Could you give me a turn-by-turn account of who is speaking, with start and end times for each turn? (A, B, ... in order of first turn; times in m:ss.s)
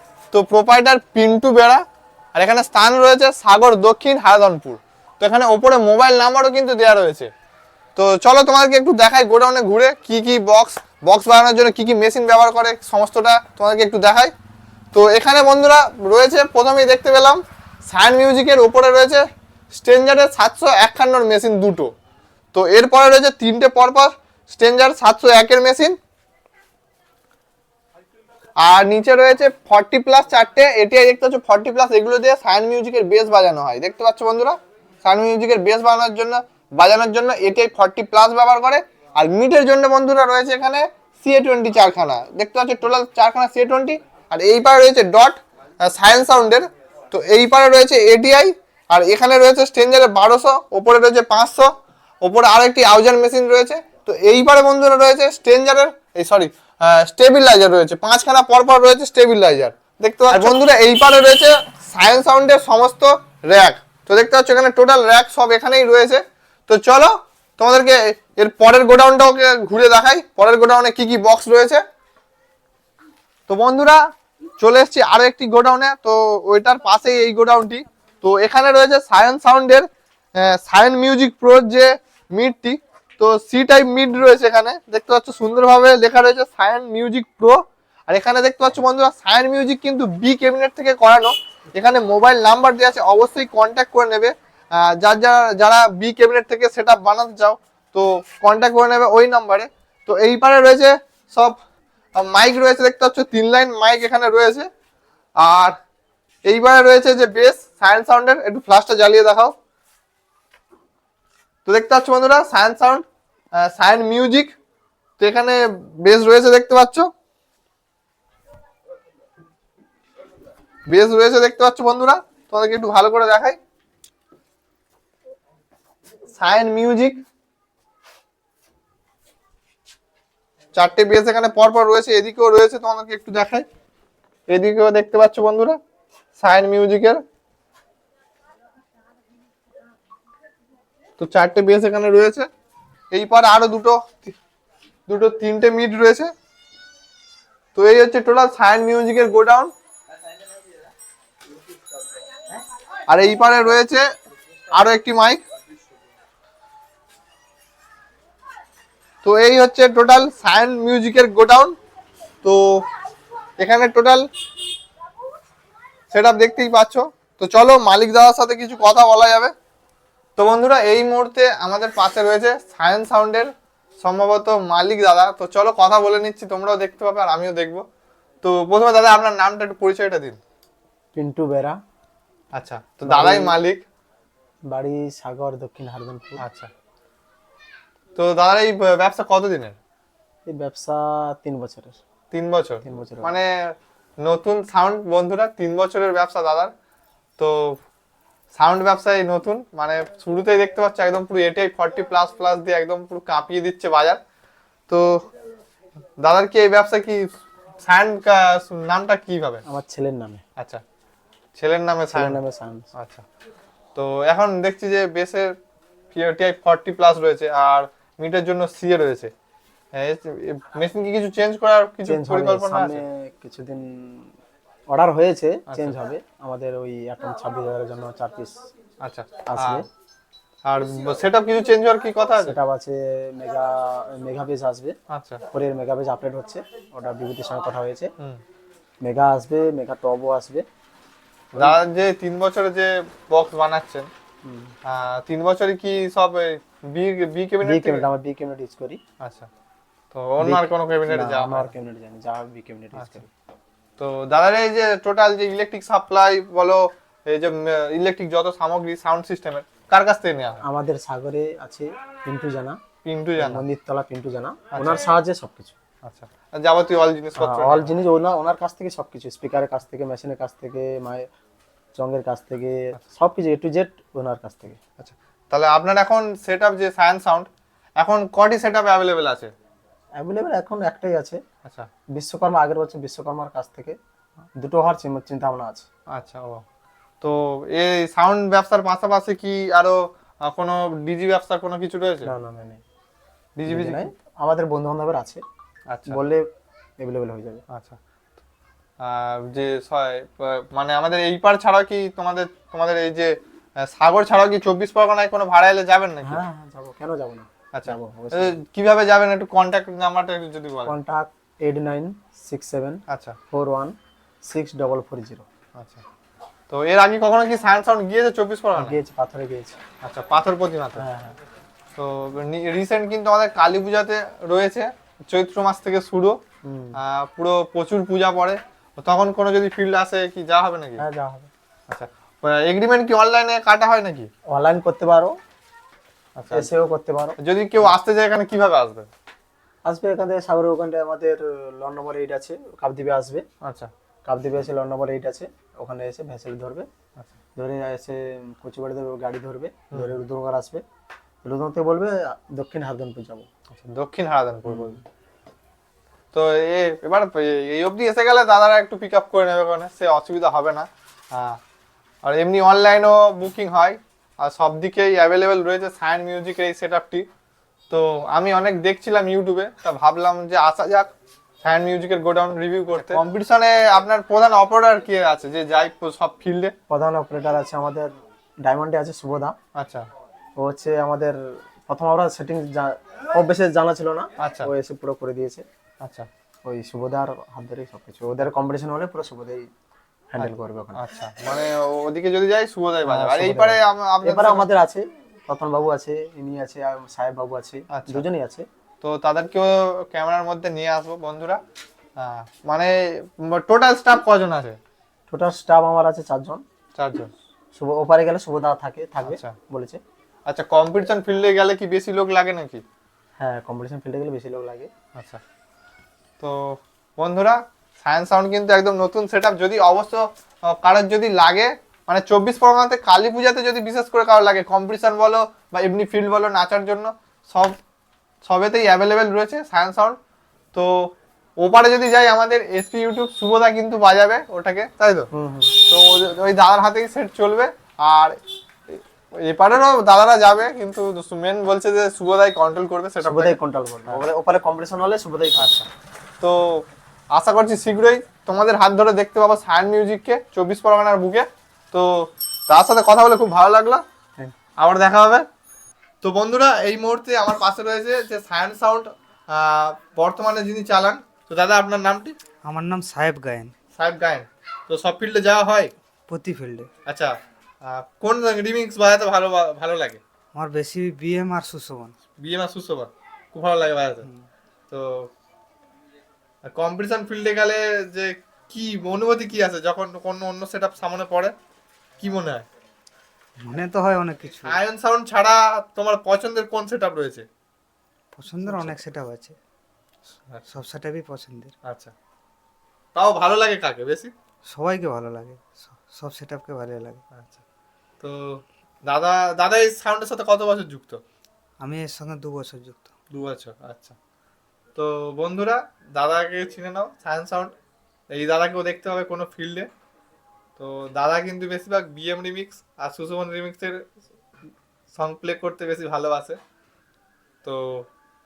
0:00.3-0:01.8 A
0:02.3-0:07.3 A
0:08.0-0:14.3 A
0:14.9-0:21.9 A
0:22.5-0:25.9 A
0:28.6-0:51.7 A
0:52.2-1:11.8 A
1:13.5-1:14.0 A
1:14.6-1:27.6 A
1:28.1-1:41.6 A
1:42.2-1:44.7 A
1:45.4-1:45.8 A
1:46.4-1:49.5 A
1:51.6-1:53.0 A
1:53.6-1:54.5 A
1:55.2-1:57.1 A
2:00.9-2:03.6 A
2:06.4-2:07.2 A
2:10.7-2:13.6 A
2:14.5-2:15.8 A
2:16.4-2:17.2 A
2:21.2-2:22.5 A
2:23.1-2:24.4 A
2:25.1-2:26.3 A
2:27.7-2:29.7 A
2:33.1-2:34.0 A
2:34.7-2:35.4 A
2:39.2-2:41.8 A
2:42.4-2:42.8 A
2:43.6-2:44.3 A
2:46.1-2:49.5 A
2:50.4-2:57.8 A
2:58.4-3:00.4 A
3:01.1-3:01.8 B
3:02.5-3:03.8 A
3:03.0-3:03.6 B
3:04.7-3:06.4 B
3:06.4-3:06.7 A
3:08.2-3:09.8 A
3:10.5-3:12.0 B
3:12.3-3:13.7 A
3:12.8-3:13.4 B
3:14.2-3:16.7 A
3:17.4-3:17.8 A
3:18.5-3:24.2 A
3:26.2-3:27.2 A
3:27.8-3:29.6 A
3:29.6-3:30.4 B
3:30.6-3:30.8 A
3:31.6-3:32.4 A
3:32.1-3:32.9 B
3:32.9-3:33.2 A
3:33.9-3:35.5 A
3:36.1-3:39.3 A
3:39.9-3:43.0 A
3:42.0-3:44.3 B
3:44.9-3:48.6 B
3:45.7-3:46.0 A
3:49.0-3:49.8 A
3:49.4-3:49.8 B
3:50.6-3:52.6 A
3:52.4-3:54.9 B
3:55.1-3:55.4 A
3:55.5-3:58.1 B
3:59.0-4:00.6 B
4:01.5-4:01.8 B
4:01.6-4:04.1 A
4:04.4-4:04.7 B
4:04.9-4:08.0 A
4:07.6-4:09.0 B
4:09.2-4:09.5 A
4:10.1-4:11.7 A
4:10.4-4:13.3 B
4:14.0-4:20.6 A
4:20.6-4:22.8 B
4:23.0-4:23.6 A
4:23.4-4:25.7 B
4:24.7-4:25.0 A
4:26.0-4:27.9 A
4:27.4-4:31.3 B
4:32.0-4:34.8 B
4:35.0-4:37.5 A
4:38.0-4:39.5 A
4:40.2-4:41.4 B
4:42.2-4:44.0 B
4:44.6-4:45.8 B
4:46.1-4:46.6 A
4:47.2-4:52.3 A
4:52.2-4:52.8 B
4:53.6-4:54.1 A
4:53.7-4:55.4 B
4:55.9-4:56.2 A
4:56.1-4:56.4 B
4:57.0-4:57.6 B
4:57.7-4:58.0 A
4:59.0-5:03.3 A
5:03.9-5:06.4 A
5:06.2-5:08.6 B
5:07.7-5:10.9 A
5:10.8-5:13.0 B
5:13.1-5:13.4 A
5:13.5-5:15.4 B
5:15.8-5:16.0 A
5:16.7-5:19.0 A
5:18.7-5:19.8 B
5:20.0-5:21.0 A
5:21.0-5:21.4 B
5:22.0-5:26.3 A
5:26.6-5:27.0 B
5:27.0-5:31.0 A
5:31.0-5:31.5 B
5:31.9-5:34.3 A
5:34.5-5:35.3 B
5:36.4-5:36.7 A
5:36.5-5:37.4 B
5:37.4-5:39.1 A
5:39.8-5:43.4 B
5:43.6-5:43.9 A
5:44.2-5:46.9 B
5:47.6-5:50.8 B
5:51.4-5:53.5 B
5:53.7-5:55.0 A
5:54.6-5:55.0 B
5:56.3-6:01.6 A
6:02.2-6:07.3 A
6:07.9-6:11.1 A
6:11.6-6:16.7 A
6:16.9-6:18.1 B
6:18.6-6:19.6 B
6:19.8-6:20.1 A
6:20.6-6:25.6 B
6:24.4-6:24.7 A
6:26.0-6:26.3 A
6:26.6-6:29.7 B
6:30.3-6:31.0 B
6:30.4-6:34.6 A
6:33.0-6:38.6 B
6:37.9-6:38.2 A
6:39.0-6:41.6 A
6:42.2-6:44.8 A
6:45.3-6:46.6 B
6:47.0-6:47.3 A
6:47.7-6:50.0 B
6:49.2-6:49.5 A
6:50.5-6:52.8 A
6:53.4-6:54.9 B
6:56.4-7:07.8 A
7:08.4-7:10.2 A
7:10.7-7:15.3 A
7:15.3-7:15.7 B
7:15.8-7:18.3 A
7:18.9-7:24.2 A
7:23.2-7:25.8 B
7:25.6-7:25.9 A
7:26.4-7:26.8 A
7:27.3-7:32.1 A
7:32.7-7:34.0 A
7:34.8-7:35.4 A
7:36.2-7:42.3 A
7:42.6-7:43.7 C
7:43.9-7:45.9 A
7:46.3-7:46.9 C
7:47.0-7:50.2 A
7:50.5-7:52.1 C
7:52.4-7:54.3 A
7:54.9-7:55.3 A
7:56.7-8:01.5 A
8:02.2-8:02.6 A
8:03.6-8:04.8 C
8:04.6-8:07.5 A
8:08.3-8:09.6 C
8:08.6-8:09.0 A
8:10.7-8:11.7 C
8:11.8-8:12.1 A
8:13.1-8:14.3 A
8:14.7-8:17.2 C
8:17.3-8:17.6 A
8:18.2-8:21.2 A
8:21.8-8:23.1 C
8:23.3-8:24.1 A
8:24.9-8:27.7 A
8:28.3-8:29.9 A
8:30.8-8:34.0 A
8:35.2-8:36.6 A
8:37.6-8:38.0 A